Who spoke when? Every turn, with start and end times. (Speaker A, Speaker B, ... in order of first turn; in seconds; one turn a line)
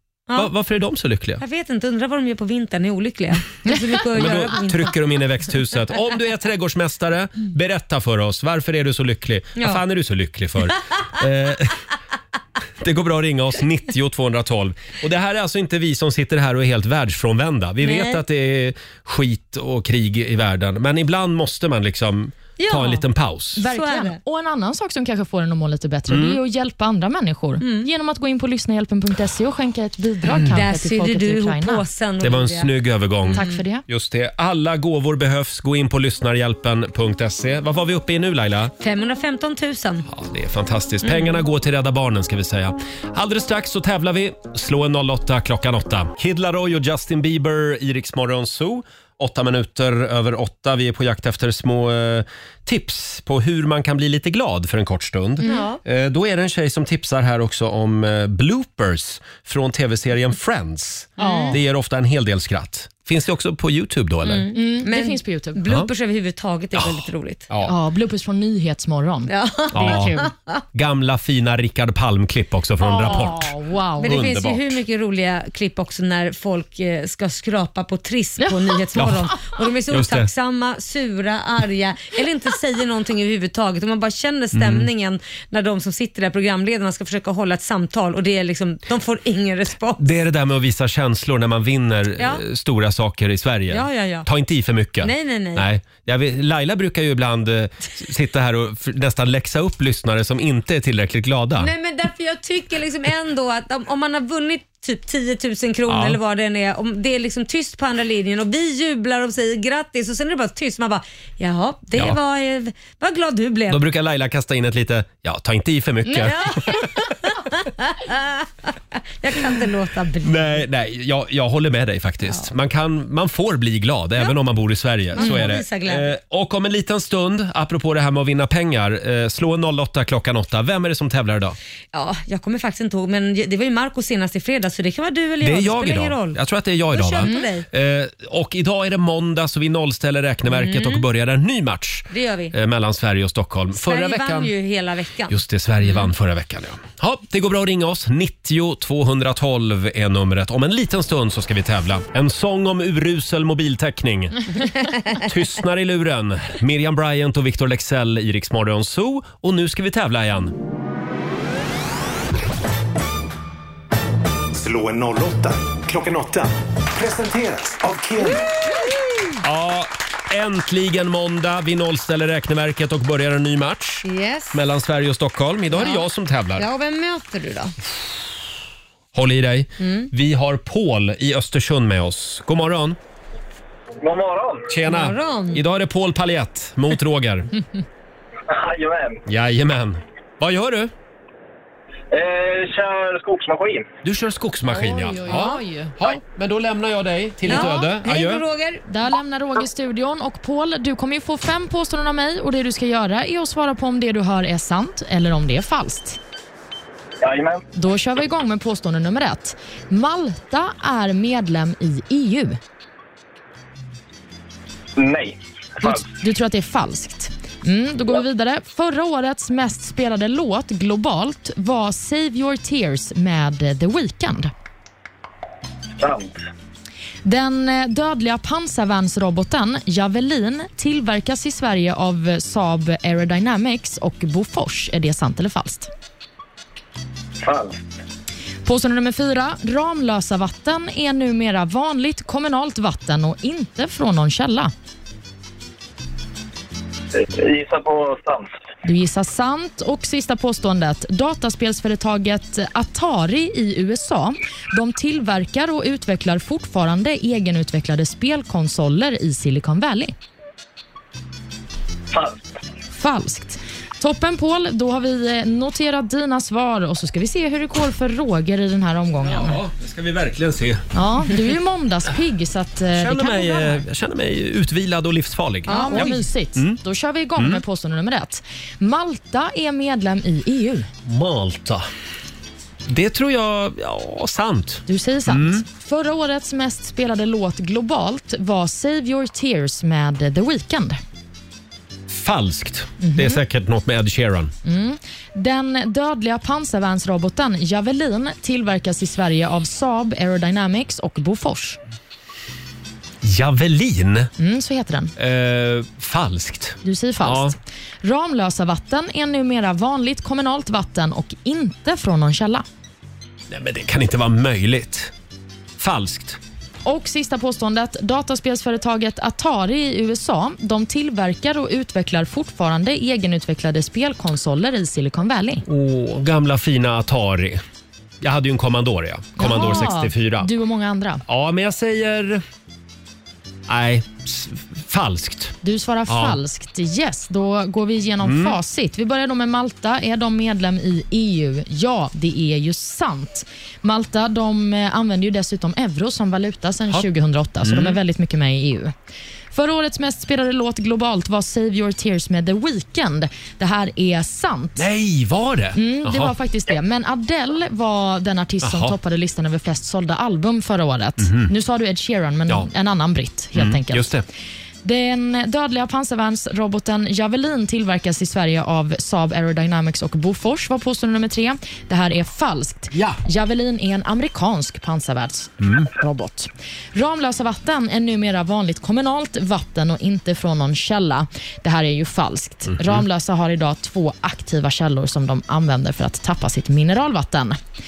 Speaker A: 0.4-1.4
Speaker B: 1.4-4.9
Speaker A: 4.1-11.8
Speaker B: 9.6-9.8
Speaker A: 12.8-23.6
Speaker B: 17.8-18.2
Speaker B: 22.6-23.0
Speaker C: 23.6-31.8
Speaker B: 23.6-24.2
Speaker A: 26.1-26.4
Speaker B: 27.6-27.9
Speaker B: 30.5-32.7
Speaker A: 32.2-38.7
Speaker B: 33.3-33.6
Speaker C: 33.3-33.8
Speaker B: 38.8-40.1
Speaker A: 40.1-64.5
Speaker B: 41.0-41.4
Speaker B: 55.4-55.8
Speaker C: 61.2-61.6
Speaker B: 61.2-61.6
Speaker B: 64.2-67.5
Speaker C: 64.5-65.6
Speaker A: 66.7-67.7
Speaker C: 67.6-70.3
Speaker B: 69.3-70.6
Speaker A: 69.7-70.2
Speaker A: 70.7-74.8
Speaker C: 72.8-74.2
Speaker B: 74.0-90.0
Speaker C: 78.4-78.7
Speaker A: 79.0-79.3
Speaker A: 79.9-80.3
Speaker A: 84.5-84.9
Speaker A: 90.0-101.7
Speaker B: 92.2-92.4
Speaker B: 93.7-94.3
Speaker B: 95.0-95.7
Speaker B: 101.6-113.8
Speaker A: 105.9-106.2
Speaker A: 113.7-117.0
Speaker B: 116.2-120.6
Speaker A: 120.2-131.6
Speaker B: 125.1-126.1
Speaker B: 131.9-136.4
Speaker A: 135.4-144.5
Speaker B: 136.9-137.7
Speaker B: 140.5-141.0
Speaker B: 142.1-142.5
Speaker B: 143.7-145.4
Speaker A: 145.3-154.4
Speaker A: 155.2-160.5
Speaker D: 164.5-168.5
Speaker A: 169.4-176.7
Speaker B: 174.0-174.6
Speaker B: 175.7-177.8
Speaker A: 179.1-183.0
Speaker B: 179.8-180.1
Speaker E: 184.0-184.7
Speaker A: 184.7-187.5
Speaker B: 184.9-185.6
Speaker E: 188.5-189.2
Speaker A: 189.2-190.9
Speaker E: 192.1-193.9
Speaker A: 194.0-198.4
Speaker C: 194.7-195.9
Speaker B: 195.3-195.5
Speaker B: 197.4-198.8
Speaker C: 198.9-206.2
Speaker E: 207.2-207.6
Speaker C: 207.7-212.6
Speaker E: 214.9-216.0
Speaker C: 215.8-224.5
Speaker E: 226.0-226.4
Speaker C: 227.2-235.9
Speaker E: 237.4-237.8
Speaker C: 238.6-244.7
Speaker E: 247.1-248.5
Speaker C: 248.8-260.1
Speaker E: 262.1-262.4
Speaker C: 262.9-269.6
Speaker A: 269.2-270.9
Speaker C: 270.9-273.9
Speaker A: 272.9-276.8
Speaker B: 275.7-276.2
Speaker C: 275.7-280.9
Speaker A: 277.4-277.6
Speaker A: 281.0-281.9
Speaker A: 282.9-285.6
Speaker C: 284.9-291.0
Speaker A: 292.1-294.5
Speaker C: 293.0-293.4
Speaker C: 294.6-301.8
Speaker A: 303.2-304.3
Speaker C: 304.4-305.1
Speaker A: 305.2-307.6
Speaker C: 306.8-312.6
Speaker A: 313.5-315.1
Speaker A: 315.8-316.4
Speaker C: 316.8-325.6
Speaker A: 325.6-327.6
Speaker A: 328.2-330.5
Speaker C: 329.4-331.2
Speaker A: 331.3-332.4
Speaker A: 333.7-335.6
Speaker C: 335.6-348.9
Speaker A: 336.1-336.4
Speaker A: 338.2-338.6
Speaker A: 347.6-348.0
Speaker C: 349.5-354.9
Speaker A: 354.8-356.3
Speaker C: 355.7-364.1
Speaker A: 358.6-358.9
Speaker A: 361.2-361.5
Speaker A: 363.5-364.2
Speaker C: 364.8-387.6
Speaker A: 372.9-373.2
Speaker A: 375.6-375.9
Speaker A: 382.7-383.0